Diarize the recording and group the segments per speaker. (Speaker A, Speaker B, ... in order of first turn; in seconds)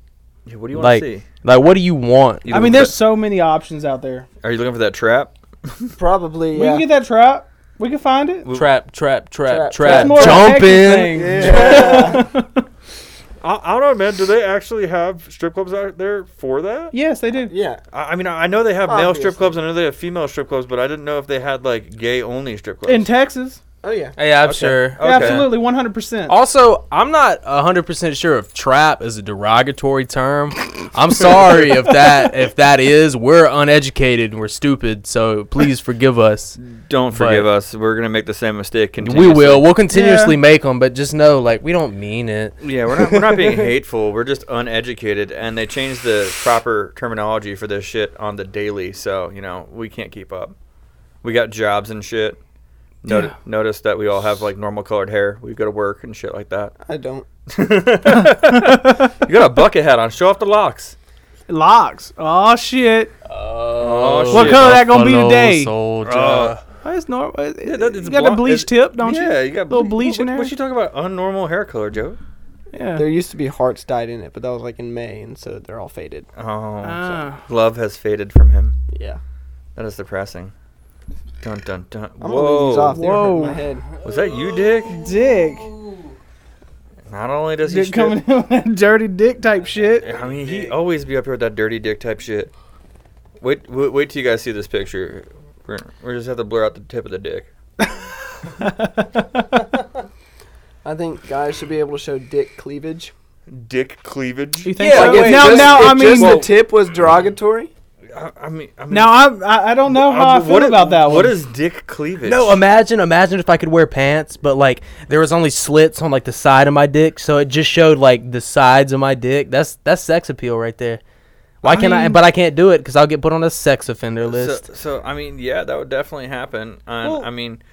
Speaker A: 0.5-1.3, 2.5-2.9, 4.4-5.9, 8.4-8.7, 13.4-16.9, 17.9-23.1, 24.4-25.5, 36.6-39.7, 42.6-50.5, 51.2-52.4, 53.0-56.7, 57.5-61.0, 63.8-64.8, 66.0-66.6, 67.6-72.2, 76.4-78.8, 79.8-80.5, 81.4-83.0, 84.0-85.0, 87.1-88.2, 90.0-92.5, 93.4-97.5, 103.5-106.5, 108.1-109.2, 109.9-112.6, 124.2-127.6
Speaker B: 0.7-2.5, 8.5-12.1, 24.2-25.5, 26.3-36.6, 37.1-37.5, 39.0-43.7, 63.2-66.6, 84.0-86.2, 89.8-90.7, 104.8-106.1, 112.2-121.0, 121.6-124.6
Speaker C: 2.5-4.3, 6.5-8.5, 9.8-12.6, 16.9-17.5, 22.9-23.6, 25.0-26.4, 39.9-40.4, 58.0-59.1, 61.5-63.1, 64.3-65.7, 66.8-70.5, 72.7-73.0, 76.8-77.4, 82.9-83.6, 84.9-85.7, 87.7-90.1, 97.8-99.8, 104.7-106.5, 108.9-111.4, 121.6-122.2, 127.0-127.3
Speaker D: 6.0-6.9, 9.5-10.6, 11.1-12.2, 17.5-17.8, 18.9-19.6, 23.8-24.2, 56.8-57.3, 73.0-76.3, 78.9-79.2, 82.2-83.9, 100.8-103.1, 104.9-107.7